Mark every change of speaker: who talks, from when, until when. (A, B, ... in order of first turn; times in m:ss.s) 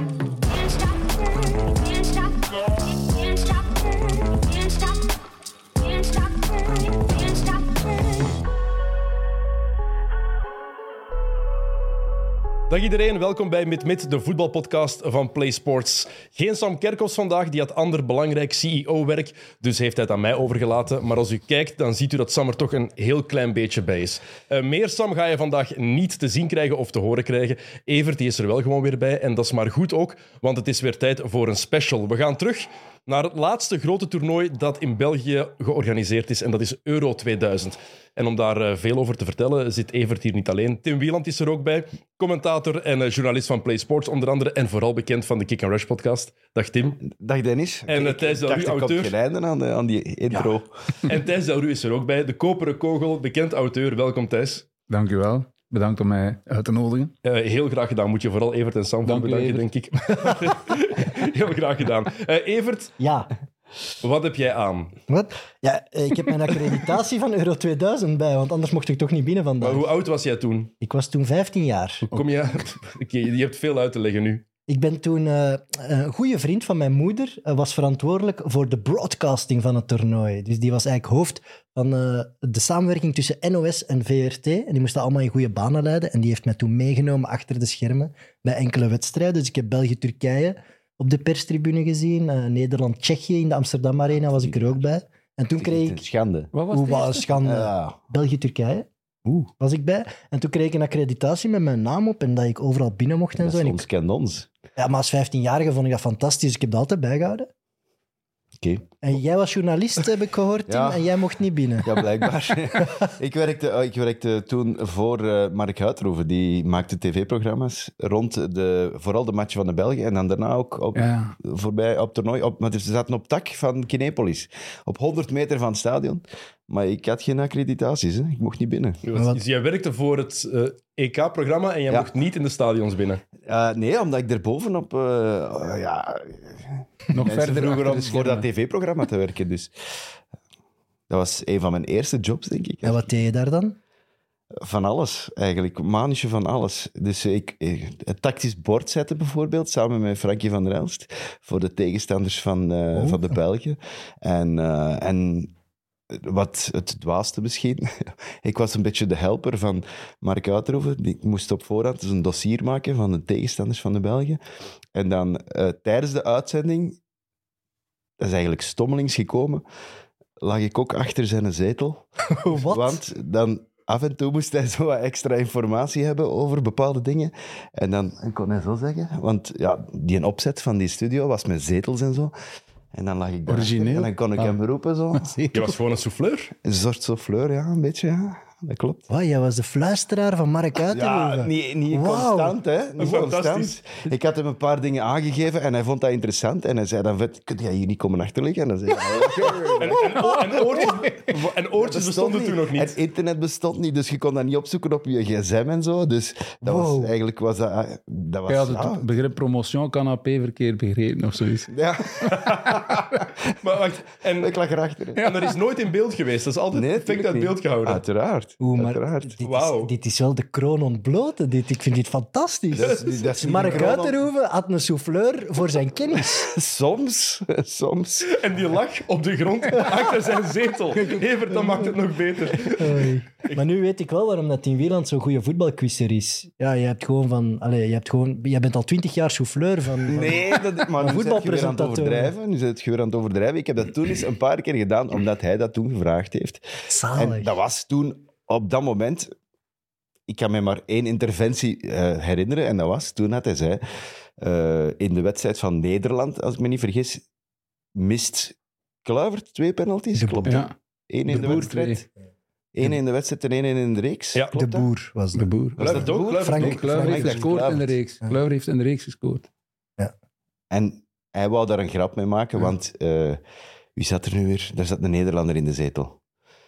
0:00.4-0:05.1 A
0:05.8-0:08.4 A
0:12.7-0:47.0 B
0:47.0-0:50.7 C
0:47.9-0:49.1 B
0:51.0-0:54.6 B
0:54.9-0:57.1 D
0:57.2-1:02.9 B
0:59.0-0:59.6 D
1:03.0-1:03.3 E
1:04.0-1:04.9 B
1:05.1-1:09.9 E
1:09.6-1:10.7 B
1:10.8-1:12.1 E
1:12.1-1:14.4 B
1:14.7-1:36.0 E
1:34.2-1:34.8 C
1:35.6-1:36.5 C
1:36.5-1:37.3 D
1:36.7-1:38.9 E
1:37.4-1:38.0 C
1:39.4-1:43.8 E
1:43.4-1:44.5 C
1:44.8-1:47.5 E
1:48.6-1:49.2 C
1:49.0-1:52.0 E
1:50.7-1:51.1 C
1:51.8-2:09.0 C
1:52.7-1:53.1 E
2:00.9-2:01.3 D
2:09.0-2:13.2 B
2:09.1-2:09.4 E
2:13.4-2:19.7 C
2:17.1-2:18.4 D
2:21.1-2:23.0 C
2:22.8-2:23.8 E
2:24.6-2:35.5 C
2:36.1-2:44.4 C
2:44.9-2:47.0 C
2:48.2-2:49.6 C
2:50.4-3:02.3 C
2:52.3-2:53.0 E
3:02.9-3:05.4 C
3:03.5-3:04.5 D
3:05.1-3:05.8 D
3:05.5-3:06.5 B
3:06.6-3:09.1 C
3:09.1-3:12.5 E
3:10.8-3:20.0 C
3:13.0-3:13.8 B
3:19.1-3:21.3 D
3:19.6-3:20.4 E
3:19.8-3:22.9 B
3:21.7-3:29.1 C
3:26.6-3:27.1 E
3:28.5-3:31.7 D
3:31.7-3:33.0 C
3:32.4-3:34.5 B
3:34.4-3:35.3 C
3:35.2-3:35.4 D
3:35.2-3:38.0 B
3:36.7-3:39.4 C
3:38.6-3:46.5 E
3:39.4-3:39.9 B
3:42.7-3:44.2 C
3:46.3-3:48.4 C
3:48.2-3:53.6 B
3:51.5-3:51.9 E
3:52.6-4:02.3 E
4:00.0-4:09.3 C
4:06.9-4:07.5 E
4:10.3-4:13.8 C
4:14.4-4:17.2 C
4:17.9-4:22.0 C
4:20.1-4:20.6 E
4:20.4-4:20.7 D
4:21.3-4:22.0 D
4:21.3-4:21.6 E
4:22.7-4:24.9 C
4:24.5-4:27.5 E
4:25.3-4:26.0 D
4:25.8-4:27.9 C
4:25.8-4:26.8 B
4:26.5-4:29.5 D
4:30.7-4:33.4 C
4:34.0-4:36.2 C